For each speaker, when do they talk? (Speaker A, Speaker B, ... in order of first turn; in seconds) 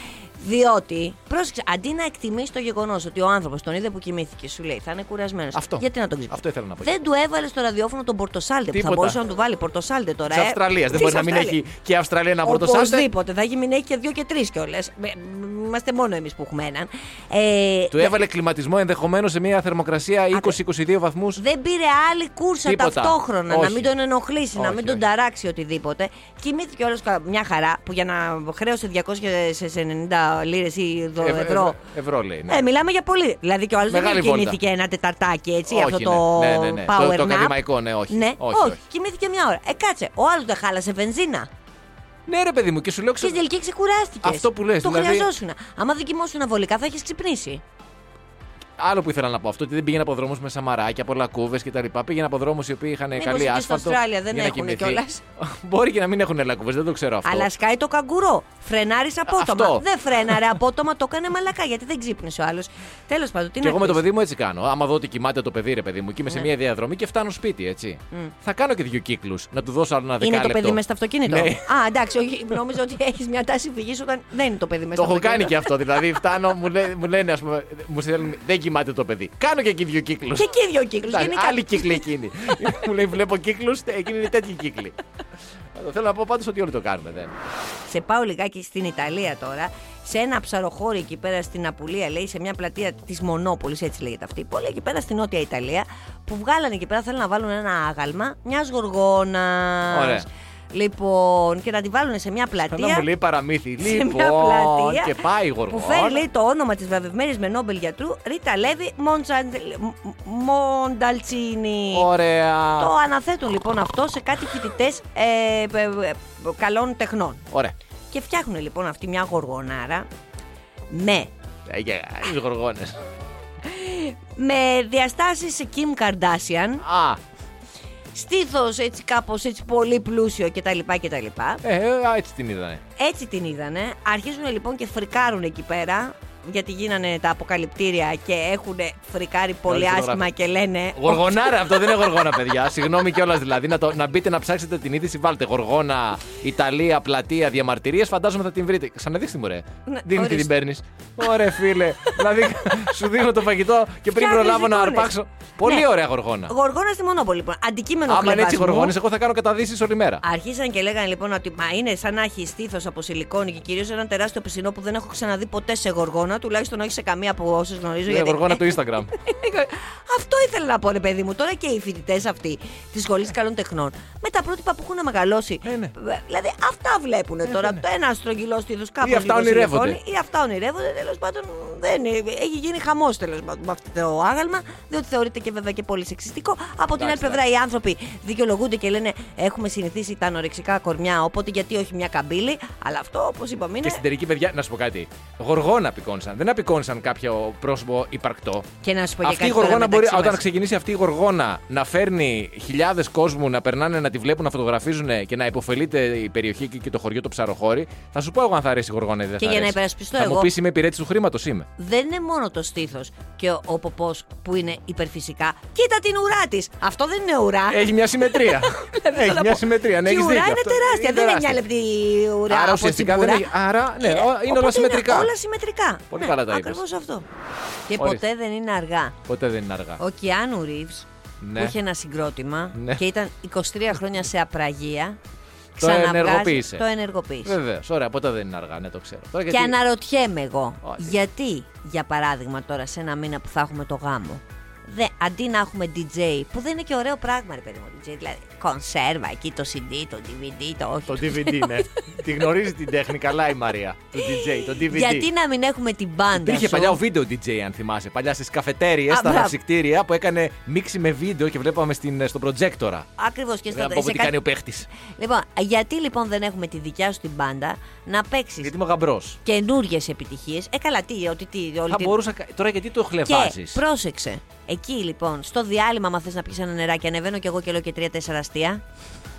Speaker A: 0.4-11.6, 12.4-18.2, 21.4-31.8, 32.5-41.5, 43.2-47.6, 53.2-55.2, 57.2-64.0, 70.2-75.7, 80.4-82.0, 87.9-103.1, 103.8-105.2, 105.7-112.1, 112.8-117.5, 118.1-120.1, 120.9-121.3, 123.6-126.8, 128.1-131.6, 133.0-141.6, 149.9-150.5, 154.1-155.1, 156.5-158.9, 160.2-194.0, 198.8-200.4, 209.4-210.5, 211.8-227.2, 227.9-229.2, 230.0-235.2, 235.8-237.6, 239.5-251.8, 254.2-257.0, 259.1-259.6, 263.2-264.4, 265.1-268.7, 269.4-272.2, 273.2-278.8
Speaker B: 5.5-6.9, 8.7-9.2, 10.3-13.1, 17.9-21.4, 22.7-23.9, 24.6-25.0, 31.2-32.6, 33.9-34.6, 35.7-38.8, 42.3-43.4, 44.2-45.3, 48.8-57.5, 59.3-60.3, 63.6-71.7, 75.0-85.0, 85.7-87.4, 99.9-100.3, 102.7-106.2, 111.9-112.9, 121.7-123.0, 126.8-127.2, 131.6-132.8, 139.7-140.2, 140.9-156.5, 158.1-160.2, 168.1-169.1, 175.6-175.9, 177.5-177.8, 179.0-180.0, 187.0-187.4, 193.8-198.7, 199.2-211.7, 217.7-221.6, 222.5-225.3, 226.1-226.8, 227.9-228.2, 229.2-230.0, 231.4-231.8, 232.8-233.0, 235.8-236.9, 237.4-239.8, 240.8-241.1, 251.1-255.3, 256.3-263.1, 263.7-264.9, 268.6-269.4, 271.9-273.8